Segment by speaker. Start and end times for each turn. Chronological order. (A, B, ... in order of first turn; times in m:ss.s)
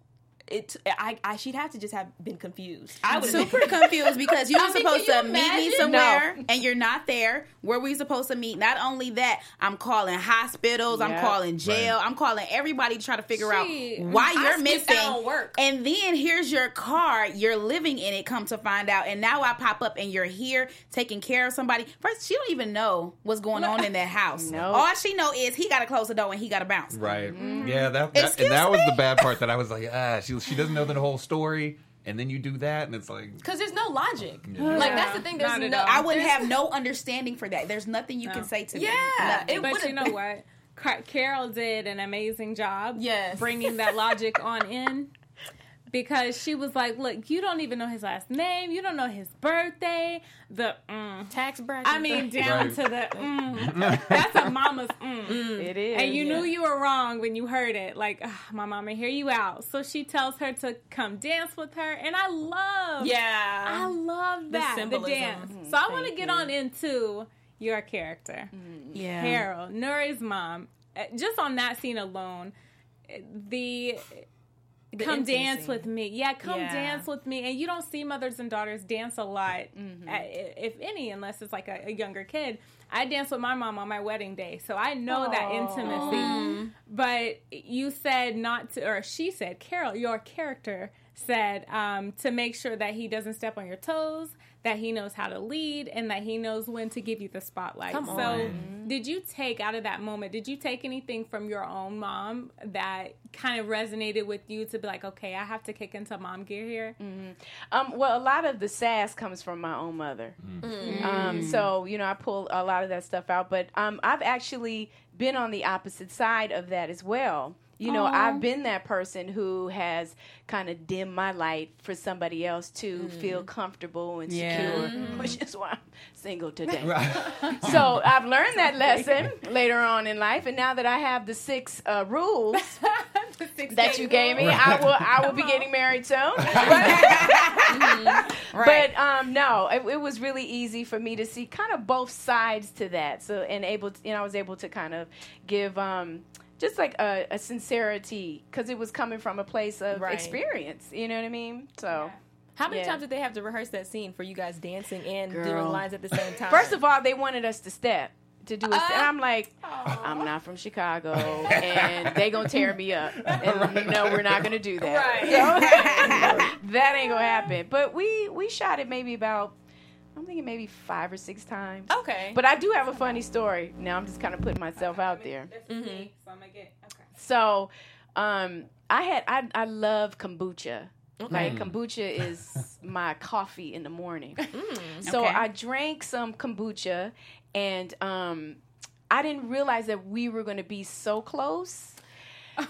0:00.5-0:06.2 A
0:03.1-0:03.7 B
0:03.1-0:27.3 C
0:05.8-0:06.4 B
0:10.9-0:11.4 B
0:11.6-0:11.9 D
0:13.3-0:14.3 E
0:14.1-0:15.6 A
0:24.3-0:24.9 B
0:26.9-0:33.4 D
0:27.3-0:27.9 B
0:27.3-0:27.9 E
0:28.1-0:29.2 C
0:33.4-0:36.5 A
0:34.4-0:35.0 D
0:34.6-0:35.0 C
0:34.7-0:35.1 B
0:34.7-0:36.1 E
0:35.8-0:39.8 C
0:38.7-0:40.1 A
0:39.6-0:45.1 E
0:43.0-0:43.5 A
0:45.9-1:12.5 E
0:51.3-0:52.3 A
0:52.4-0:52.8 D
0:53.6-0:54.2 D
0:55.3-0:55.7 A
0:55.4-0:56.5 B
1:03.0-1:03.9 A
1:04.5-1:05.5 A
1:05.4-1:06.5 B
1:08.5-1:09.0 B
1:08.9-1:09.4 C
1:13.1-1:14.2 E
1:14.9-1:47.0 E
1:15.0-1:15.8 A
1:16.4-1:17.0 A
1:19.7-1:20.3 B
1:25.1-1:26.4 B
1:25.8-1:26.4 A
1:25.8-1:26.7 C
1:37.9-1:38.7 A
1:38.1-1:39.0 B
1:38.2-1:38.6 D
1:47.0-2:12.8 B
1:50.6-1:51.6 A
1:50.8-1:51.7 C
1:50.9-1:51.2 E
1:57.8-1:58.4 E
2:02.9-2:03.5 A
2:04.3-2:05.0 C
2:04.5-2:05.4 A
2:04.9-2:05.4 E
2:06.7-2:08.0 E
2:06.8-2:08.0 D
2:08.5-2:09.3 E
2:12.8-2:15.7 E
2:13.7-2:32.1 B
2:14.4-2:14.9 D
2:16.4-2:17.2 E
2:16.5-2:17.3 D
2:17.7-2:18.7 A
2:18.5-2:18.9 C
2:29.9-2:30.4 A
2:31.9-2:32.2 E
2:32.6-2:36.8 A
2:32.7-2:33.0 B
2:35.3-2:35.8 B
2:36.4-2:49.5 B
2:38.7-2:40.3 A
2:41.2-2:42.4 D
2:43.1-2:44.6 D
2:44.8-2:46.2 A
2:45.6-2:46.4 C
2:50.1-2:55.5 B
2:51.9-2:52.4 A
2:52.9-2:53.2 E
2:54.8-2:57.1 E
2:55.7-2:56.1 A
2:57.2-3:04.5 B
3:01.2-3:01.6 A
3:01.3-3:01.8 D
3:04.5-3:05.0 A
3:05.0-3:12.0 B
3:05.0-3:05.5 C